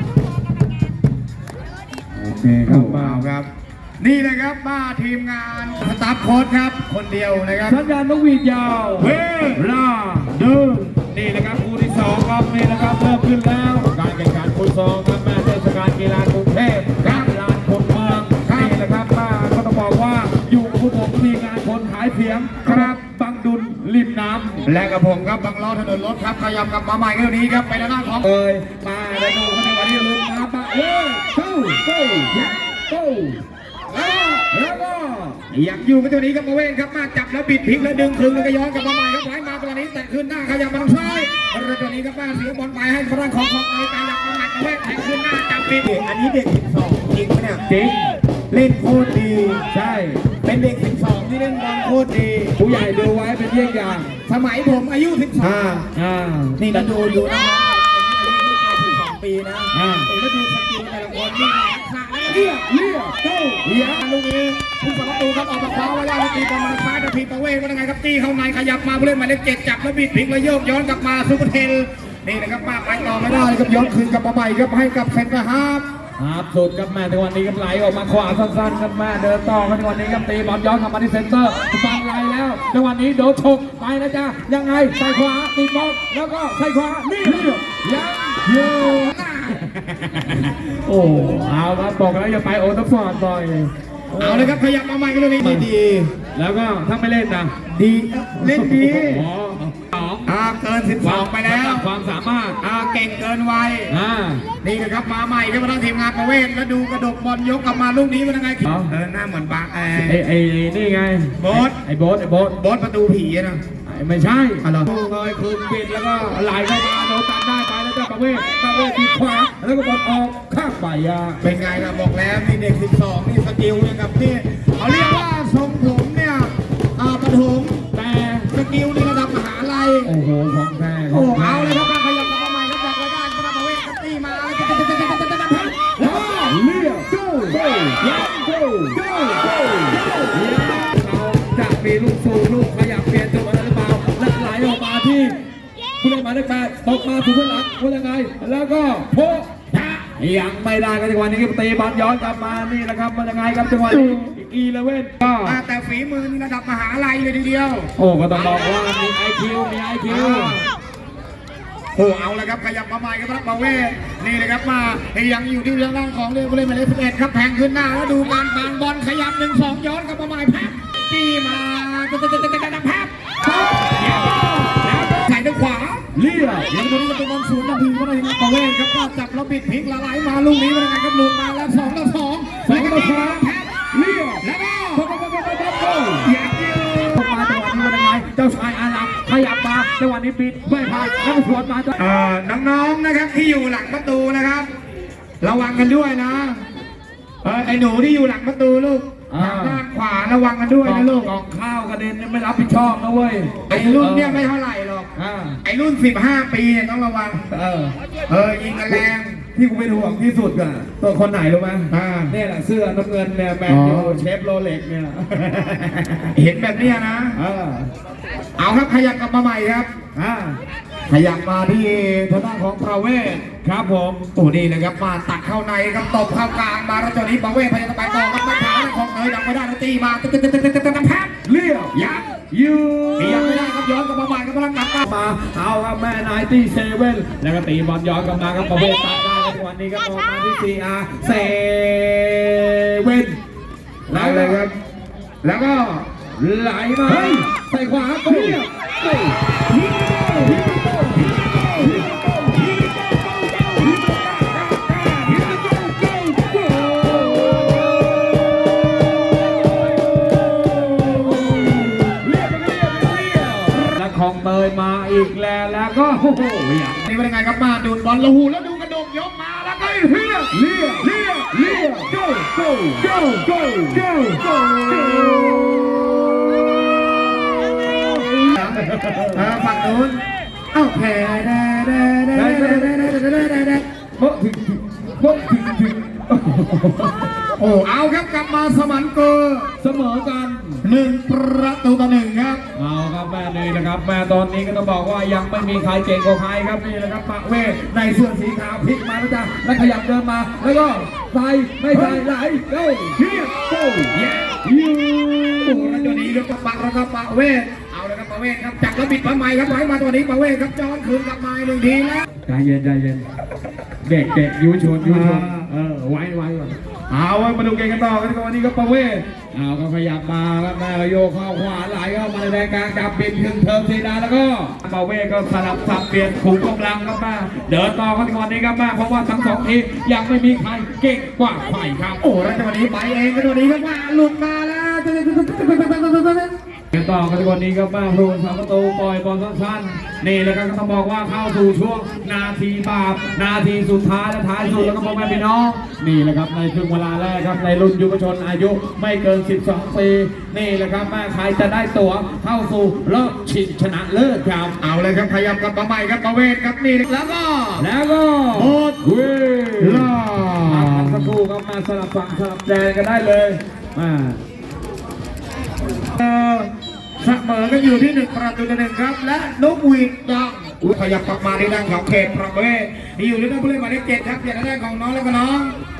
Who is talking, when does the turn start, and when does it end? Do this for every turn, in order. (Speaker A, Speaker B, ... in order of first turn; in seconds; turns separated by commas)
Speaker A: 2.2-3.2, Speaker B: 2.6-3.5, Speaker B: 4.0-7.8, Speaker A: 7.7-10.3, Speaker B: 9.0-9.7, Speaker B: 10.3-10.9, Speaker A: 11.1-24.6, Speaker B: 17.0-17.3, Speaker B: 18.4-18.8, Speaker B: 22.6-23.0, Speaker B: 24.6-28.3, Speaker A: 28.2-33.4, Speaker B: 32.3-32.6, Speaker B: 33.9-34.4, Speaker A: 34.5-35.4, Speaker B: 35.5-47.6, Speaker A: 47.7-48.2, Speaker B: 48.5-49.6, Speaker A: 49.7-50.2, Speaker B: 50.4-52.5, Speaker A: 52.6-54.2, Speaker B: 54.3-55.9, Speaker A: 56.0-56.8, Speaker B: 56.6-62.6, Speaker A: 59.7-60.1, Speaker A: 62.3-64.0, Speaker B: 63.2-75.9, Speaker A: 76.2-89.2, Speaker B: 87.2-87.6, Speaker B: 88.5-90.5, Speaker A: 90.5-94.6, Speaker B: 94.2-96.1, Speaker A: 95.4-95.7, Speaker A: 96.3-97.5, Speaker B: 97.7-99.2, Speaker A: 98.4-100.3, Speaker B: 100.2-101.9, Speaker A: 101.0-102.6, Speaker B: 102.6-104.0, Speaker A: 103.9-104.5, Speaker B: 104.6-110.2, Speaker A: 108.6-108.9, Speaker A: 110.0-112.6, Speaker B: 111.4-111.8, Speaker B: 112.6-113.6, Speaker A: 113.9-121.4, Speaker B: 114.6-114.9, Speaker B: 121.4-127.8, Speaker A: 127.9-128.5, Speaker B: 128.4-130.1, Speaker A: 130.0-131.9, Speaker B: 131.1-136.6, Speaker A: 136.0-145.4, Speaker B: 137.1-137.6, Speaker B: 139.2-139.5, Speaker A: 146.0-149.5, Speaker B: 149.7-150.0, Speaker A: 150.0-155.6, Speaker B: 155.4-158.8, Speaker A: 158.0-160.6, Speaker B: 160.1-160.7, Speaker B: 161.9-176.0, Speaker A: 176.2-176.7, Speaker B: 176.7-183.7, Speaker A: 182.7-186.3, Speaker B: 184.4-185.1, Speaker B: 186.2-187.2, Speaker A: 187.1-192.0, Speaker B: 192.0-194.7, Speaker B: 195.4-196.7, Speaker B: 197.4-201.3, Speaker A: 199.3-199.8, Speaker A: 200.8-204.5, Speaker B: 203.7-205.1, Speaker A: 205.2-205.6, Speaker B: 205.6-207.4, Speaker A: 207.5-207.9, Speaker B: 208.3-209.4, Speaker A: 209.5-216.3, Speaker B: 211.9-212.3, Speaker B: 213.7-214.2, Speaker B: 216.3-217.4, Speaker A: 217.3-217.9, Speaker B: 218.6-219.9, Speaker A: 220.2-220.6, Speaker B: 221.1-223.4, Speaker A: 223.6-224.3, Speaker B: 224.3-231.3, Speaker A: 231.4-233.8, Speaker B: 231.9-232.3, Speaker B: 233.2-235.0, Speaker A: 235.0-243.4, Speaker A: 244.1-244.7, Speaker B: 244.1-244.7, Speaker B: 245.4-246.0, Speaker A: 246.4-249.3, Speaker B: 247.1-247.4, Speaker B: 248.3-248.7, Speaker B: 249.7-255.6, Speaker A: 250.1-267.1, Speaker B: 267.0-270.5, Speaker A: 270.5-276.0, Speaker B: 273.0-275.6, Speaker A: 277.8-279.5, Speaker B: 278.5-280.2, Speaker B: 280.7-283.8, Speaker A: 282.3-283.2, Speaker A: 284.2-287.3, Speaker B: 287.6-289.7, Speaker A: 289.8-290.8, Speaker B: 290.8-292.6, Speaker A: 292.8-306.4, Speaker B: 301.9-302.2, Speaker B: 304.1-304.6, Speaker B: 305.6-312.3, Speaker A: 312.4-313.2, Speaker A: 314.0-332.2, Speaker B: 315.0-315.6, Speaker B: 332.2-336.5, Speaker A: 336.9-354.8, Speaker B: 354.8-357.9, Speaker A: 357.8-360.1, Speaker B: 358.5-359.0, Speaker B: 359.8-361.3, Speaker A: 360.6-364.4, Speaker B: 366.1-375.7